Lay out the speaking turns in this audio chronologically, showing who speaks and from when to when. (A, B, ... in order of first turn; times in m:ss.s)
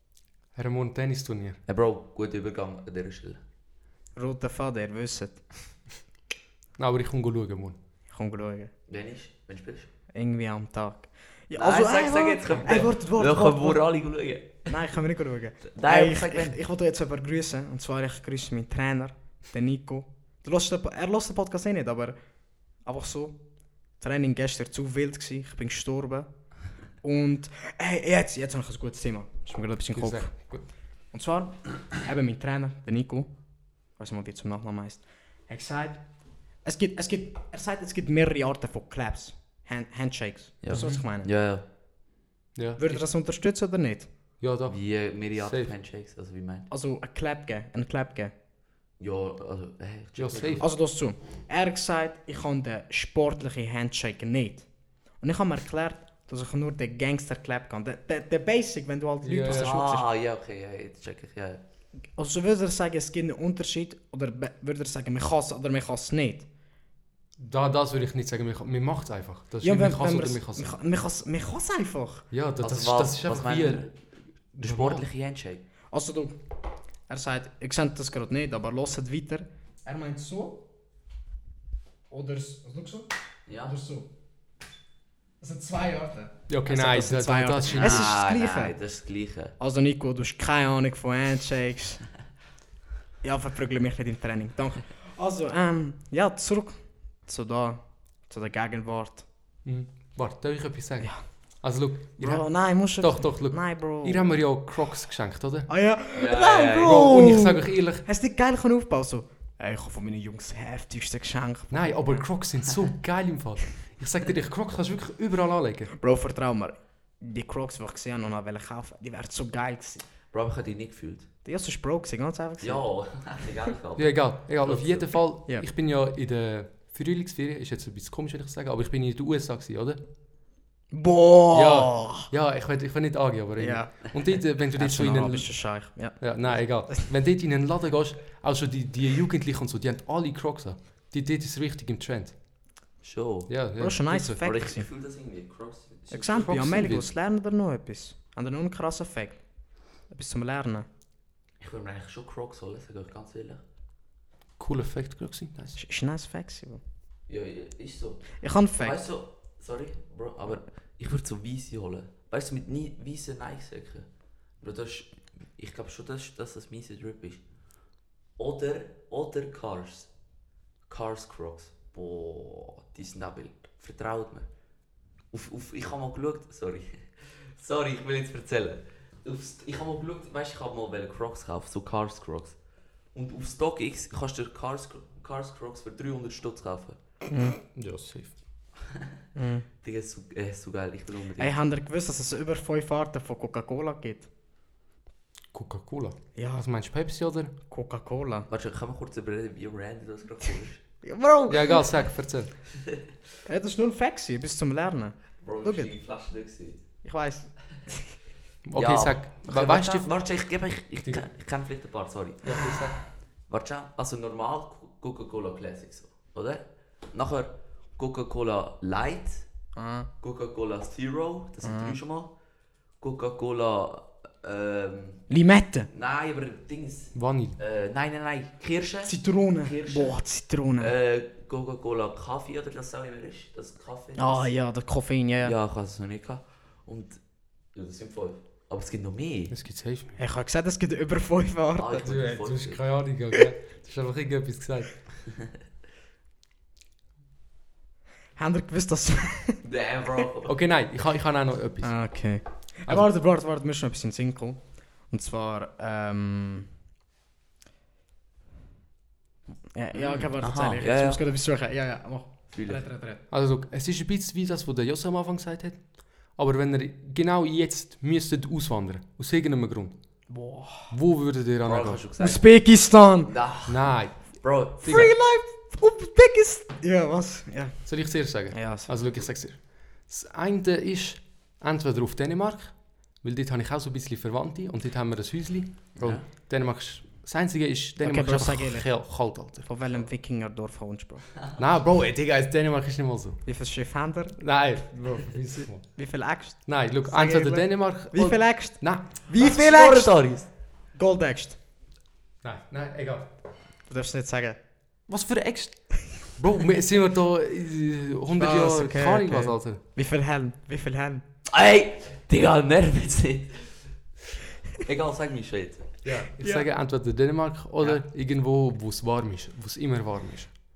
0:00.5-0:01.6 A
0:01.7-0:03.4 B
0:04.2-0:05.4 C
0:06.8-0:07.8 A
0:08.1-0:08.7 C
0:08.9-0:09.9 B
0:10.1-0:13.8 C
0:11.6-0:14.7 B
0:14.6-0:22.2 C
0:15.7-0:16.6 B
0:22.8-0:23.4 C
0:24.0-0:26.3 C
0:27.0-0:30.4 C
0:29.9-0:30.6 A
0:31.1-0:33.3 C
0:34.0-0:36.0 C
0:36.6-0:41.3 C
0:40.6-0:41.6 B
0:40.7-0:41.0 A
0:42.5-0:43.0 A
0:42.8-0:44.1 C
0:44.4-0:44.8 A
0:44.7-0:46.7 B
0:45.4-0:45.7 A
0:46.7-0:48.3 C
0:49.0-0:50.6 B
0:50.2-0:50.6 A
0:50.6-0:54.7 C
0:55.2-1:00.1 C
0:59.2-0:59.7 A
0:59.5-1:01.6 B
1:02.2-1:06.5 C
1:07.4-1:10.8 A
1:09.6-1:12.3 C
1:12.3-1:13.9 A
1:12.6-1:13.9 B
1:14.5-1:15.0 A
1:14.6-1:15.6 B
1:15.9-1:16.4 C
1:17.1-1:20.6 C
1:22.1-1:23.1 C
1:23.5-1:23.7 B
1:23.6-1:24.1 C
1:25.4-1:28.7 C
1:26.5-1:28.1 A
1:27.6-1:29.6 B
1:29.6-1:32.0 C
1:33.2-1:39.2 C
1:39.6-1:42.5 A
1:42.2-1:44.4 C
1:43.0-1:45.7 A
1:45.7-1:52.3 C
1:46.1-1:47.1 B
1:46.8-1:48.0 A
1:51.7-1:55.9 A
1:56.0-2:00.0 C
2:00.3-2:01.3 B
2:01.4-2:02.8 C
2:02.6-2:05.1 B
2:04.0-2:10.0 A
2:10.9-2:12.3 C
2:11.5-2:15.5 A
2:13.6-2:14.1 C
2:14.7-2:17.0 C
2:16.2-2:22.3 A
2:23.0-2:23.5 B
2:23.5-2:24.4 A
2:23.8-2:24.9 C
2:24.2-2:26.9 B
2:26.1-2:29.4 C
2:26.4-2:27.1 A
2:30.1-2:30.9 C
2:31.6-2:33.6 B
2:34.6-2:35.8 A
2:35.7-2:36.8 C
2:37.3-2:44.0 B
2:38.4-2:39.0 C
2:44.6-2:47.4 B
2:48.4-2:50.1 B
2:50.9-2:54.5 B
2:55.3-3:02.6 B
3:03.1-3:07.0 B
3:07.3-3:07.6 C
3:07.7-3:08.3 A
3:09.4-3:09.6 C
3:09.8-3:11.5 B
3:11.4-3:14.3 C
3:15.5-3:17.5 A
3:16.4-3:16.6 C
3:17.7-3:18.5 C
3:18.5-3:20.8 B
3:21.0-3:21.9 C
3:21.5-3:22.5 A
3:23.4-3:25.9 C
3:25.4-3:26.8 B
3:27.0-3:28.0 C
3:28.7-3:30.1 A
3:28.7-3:39.5 B
3:32.4-3:33.0 A
3:39.7-3:40.1 C
3:40.2-3:42.3 B
3:41.6-3:42.0 C
3:43.0-3:45.2 B
3:45.3-3:45.9 C
3:45.9-3:50.2 B
3:47.1-3:47.6 A
3:49.0-3:50.9 C
3:50.8-3:54.5 B
3:54.2-3:55.5 C
3:55.4-3:57.2 B
3:57.7-3:59.5 B
3:59.5-4:00.2 A
4:00.2-4:02.1 C
4:01.8-4:02.8 B
4:02.0-4:05.0 A
4:08.4-4:09.6 C
4:09.6-4:10.6 B
4:10.4-4:11.9 A
4:11.8-4:16.7 C
4:19.7-4:23.2 C
4:20.0-4:21.2 B
4:22.5-4:22.8 B
4:23.3-4:25.8 A
4:26.4-4:30.0 A
4:30.3-4:30.9 C
4:30.9-4:32.0 A
4:31.6-4:32.4 B
4:32.2-4:33.3 C
4:33.2-4:34.8 B
4:33.7-4:34.2 A
4:34.8-4:37.9 C
4:34.8-4:35.1 A
4:37.8-4:49.7 A
4:38.5-4:39.0 C
4:46.0-4:46.2 B
4:48.0-4:48.9 C
4:49.6-4:51.2 C
4:51.6-4:53.4 A
4:53.4-4:54.4 C
4:54.4-4:55.9 A
4:55.9-5:00.2 C
4:56.6-4:59.1 A
4:59.3-5:00.5 B
5:00.9-5:01.6 C
5:02.4-5:03.3 A
5:03.9-5:04.6 C
5:05.1-5:09.8 A
5:08.4-5:11.2 C
5:11.5-5:13.9 B
5:14.7-5:16.0 B
5:16.0-5:20.6 A
5:16.4-5:16.7 C